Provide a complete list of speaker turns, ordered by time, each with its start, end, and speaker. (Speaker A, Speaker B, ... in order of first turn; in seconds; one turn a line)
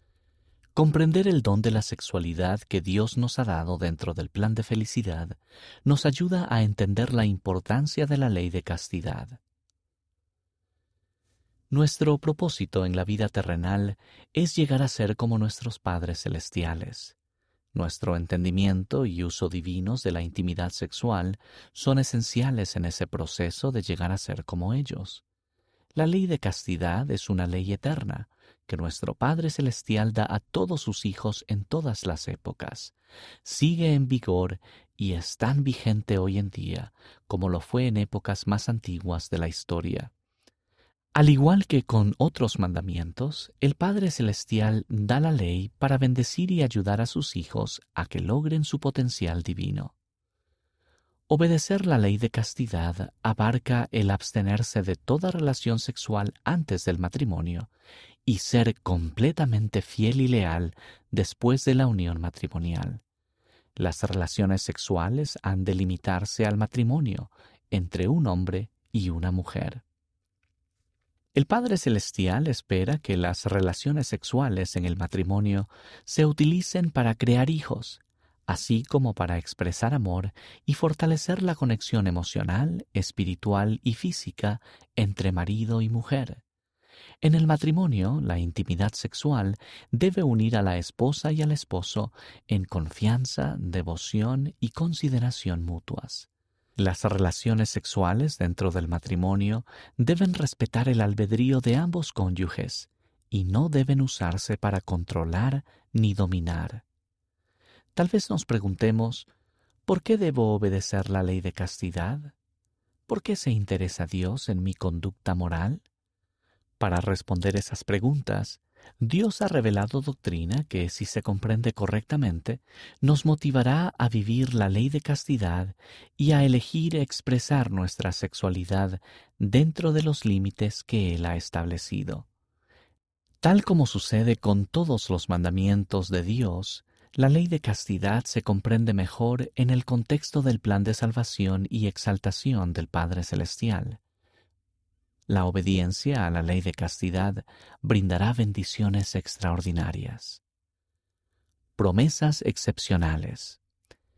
Speaker A: 0.8-9.4
Speaker A: 11.7-17.2
Speaker A: 17.7-25.2
Speaker A: 25.9-40.1
Speaker A: 41.1-49.9
Speaker A: 51.3-57.7
Speaker A: 58.3-63.0
Speaker A: 63.8-69.8
Speaker A: 71.3-86.4
Speaker A: 87.2-106.8
Speaker A: 108.0-109.3
Speaker A: 109.9-112.3
Speaker A: 113.1-115.8
Speaker A: 116.8-132.3
Speaker A: 133.4-144.0
Speaker A: 145.3-150.4
Speaker A: 151.8-153.6